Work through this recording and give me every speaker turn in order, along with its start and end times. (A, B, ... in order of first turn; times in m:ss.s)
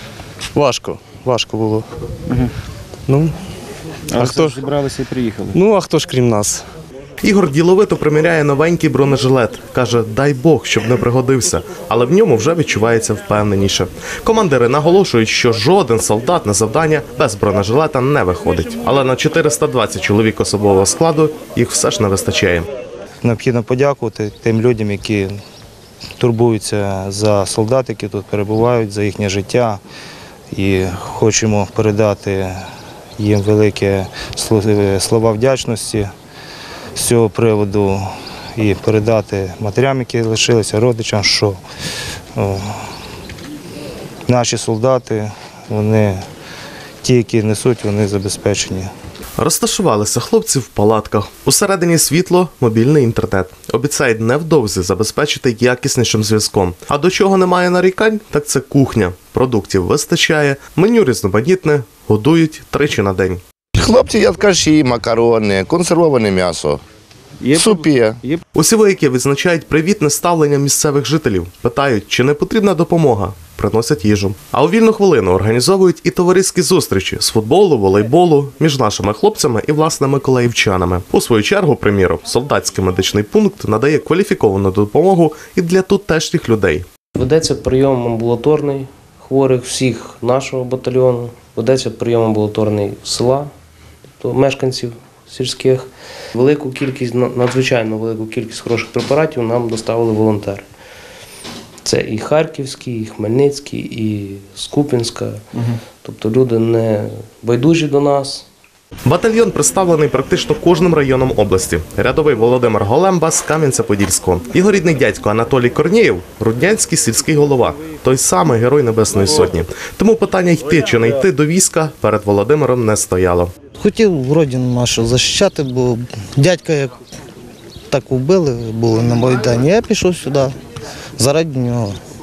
0:00.5-0:01.9 A
0:03.1-0:03.4 A
0:04.1-0:04.6 A
0:04.4-0:05.5 B
0:05.5-0:06.7 A
0:07.2-0:22.7 C
0:23.2-0:25.3 D
0:26.2-0:29.8 D
0:30.5-0:32.6 D
0:33.2-0:36.1 D
0:37.0-0:38.0 D
0:38.6-0:41.6 D
0:42.4-0:42.8 D
0:44.3-0:46.2 D
0:47.0-0:48.9 D
0:49.4-1:03.4 C
1:03.8-1:06.8 E
1:07.4-1:08.4 B
1:07.6-1:08.2 E
1:08.6-1:26.8 C
1:27.2-1:33.5 F
1:34.2-1:40.7 F
1:41.8-1:45.4 F
1:46.0-1:48.5 F
1:49.1-2:03.5 C
2:03.8-2:06.9 G
2:07.9-2:10.5 G
2:11.2-2:11.9 G